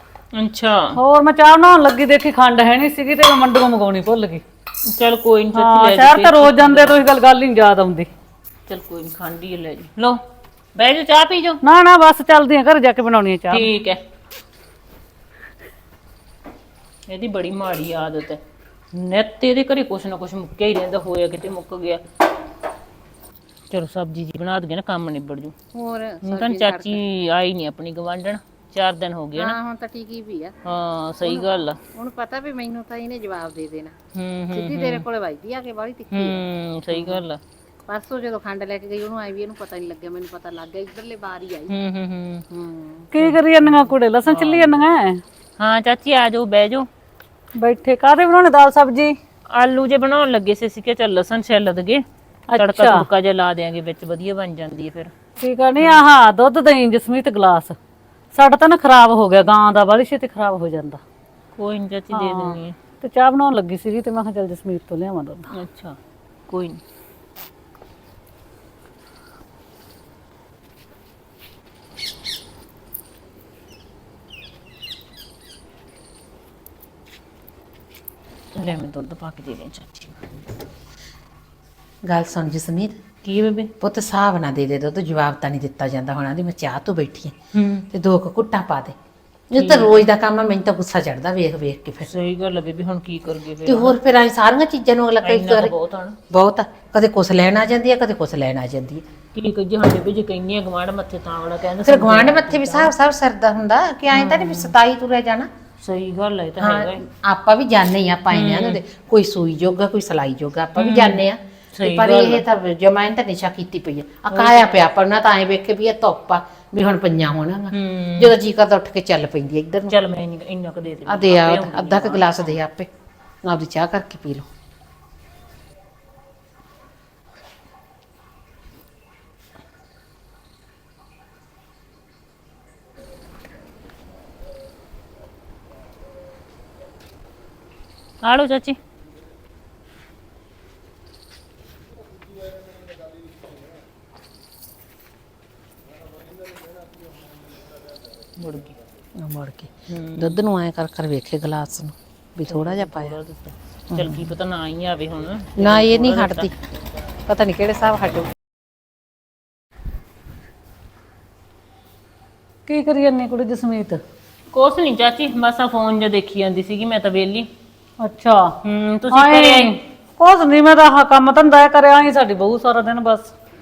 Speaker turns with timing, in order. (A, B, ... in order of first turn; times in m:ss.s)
0:00.4-0:01.0 A
0:00.9-0:04.4 B
0:04.9-0:07.0 A
0:05.6-0:08.1 B
0:08.7-0:10.2 A
0:10.8-0:11.6 A
0:11.6-0:13.7 B
0:13.5-0:14.0 A
0:17.1-0:18.4 A
0:18.9-0:22.0 A
0:23.7-0:25.5 A
0:25.7-0:27.0 C
0:26.2-0:29.6 A
0:29.4-0:30.5 C
0:30.6-0:31.8 A
0:31.2-0:34.0 C
0:34.2-0:35.0 A
0:34.5-0:37.2 C
0:36.1-0:37.4 A
0:37.9-0:41.7 C
0:41.7-0:42.4 A
0:42.5-0:43.1 C
0:43.1-0:45.2 B
0:43.2-0:44.8 A
0:45.6-0:46.9 A
0:47.6-0:49.2 B
0:49.5-0:55.1 A
0:52.5-0:53.1 B
0:55.4-0:57.8 B
0:58.3-1:01.0 B
1:01.6-1:02.8 A
1:02.1-1:05.5 B
1:05.5-1:06.0 A
1:06.5-1:06.8 A
1:18.6-1:20.2 A
1:22.1-1:23.0 C
1:23.2-1:23.7 A
1:23.8-1:27.4 C
1:27.5-1:27.8 A
1:27.9-1:28.9 C
1:29.5-1:32.1 C
1:29.5-1:30.1 A
1:32.0-1:34.0 A
1:33.7-1:35.7 C
1:35.2-1:36.2 A
1:36.3-1:39.0 C
1:39.4-1:42.9 A
1:41.8-1:45.5 C
1:44.1-1:44.7 A
1:45.8-1:47.0 A
1:46.6-2:00.0 C
1:48.3-1:48.8 A
1:50.8-1:51.2 A
1:51.8-1:52.4 A
1:54.3-1:54.9 A
1:57.7-1:58.4 A
1:59.9-2:02.6 A
2:01.1-2:02.9 C
2:03.4-2:04.5 C
2:18.2-2:18.8 A
2:28.4-2:28.8 A
2:29.2-2:33.2 C
2:29.9-2:30.4 A
2:32.5-2:36.5 A
2:33.9-2:34.3 C
2:35.6-2:36.5 C
2:37.3-2:38.3 C
2:42.7-2:44.0 B
2:44.5-2:47.5 A
2:48.0-2:48.6 B
2:48.6-2:49.8 A
2:49.1-2:53.3 B